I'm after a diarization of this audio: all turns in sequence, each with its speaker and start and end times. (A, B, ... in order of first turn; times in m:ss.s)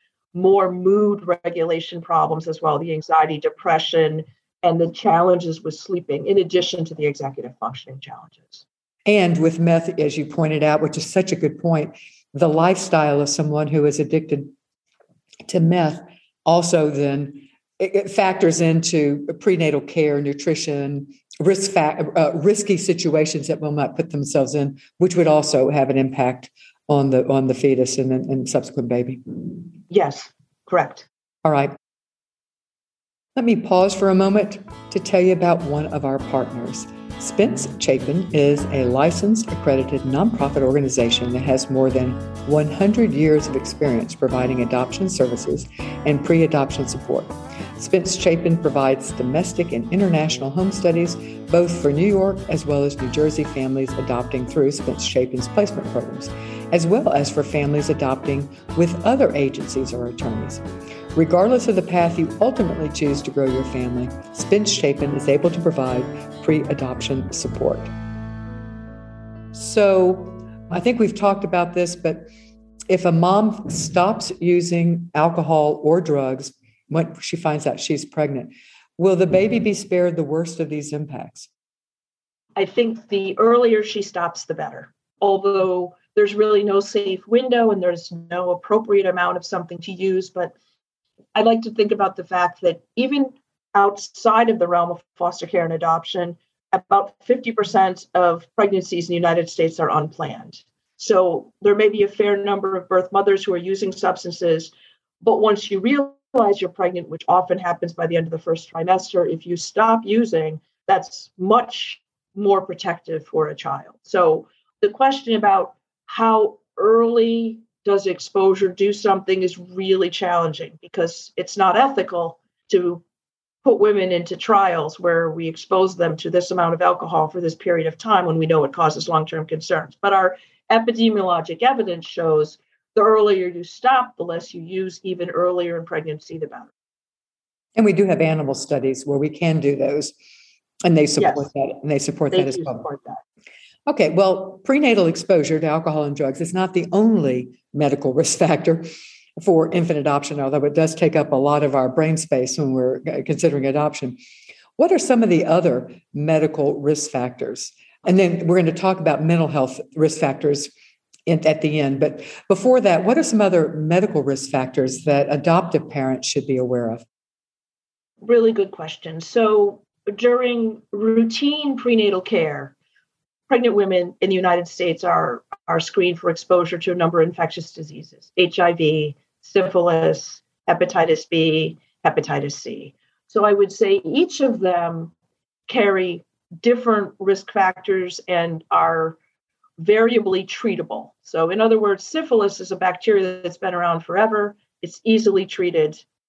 0:00.3-0:08.6 A
0:09.0-0:14.5 B
0:15.5-0:29.2 B
0:29.9-0:31.0 A
0:31.4-0:31.7 B
0:33.4-1:00.6 B
1:01.1-1:07.9 B
1:09.5-1:12.3 B
1:12.9-1:21.5 B
1:22.6-1:30.5 A
1:31.3-2:03.0 A
2:03.6-2:16.7 A
2:17.8-2:20.1 B
2:20.8-2:22.8 B
2:21.2-2:21.5 A
2:22.3-2:23.2 A
2:23.9-2:28.8 B
2:29.4-2:34.2 B
2:34.8-2:40.7 B
2:41.3-2:47.0 B
2:48.2-2:52.7 A
2:53.5-3:05.1 A
3:05.7-3:09.2 A
3:09.8-3:16.0 A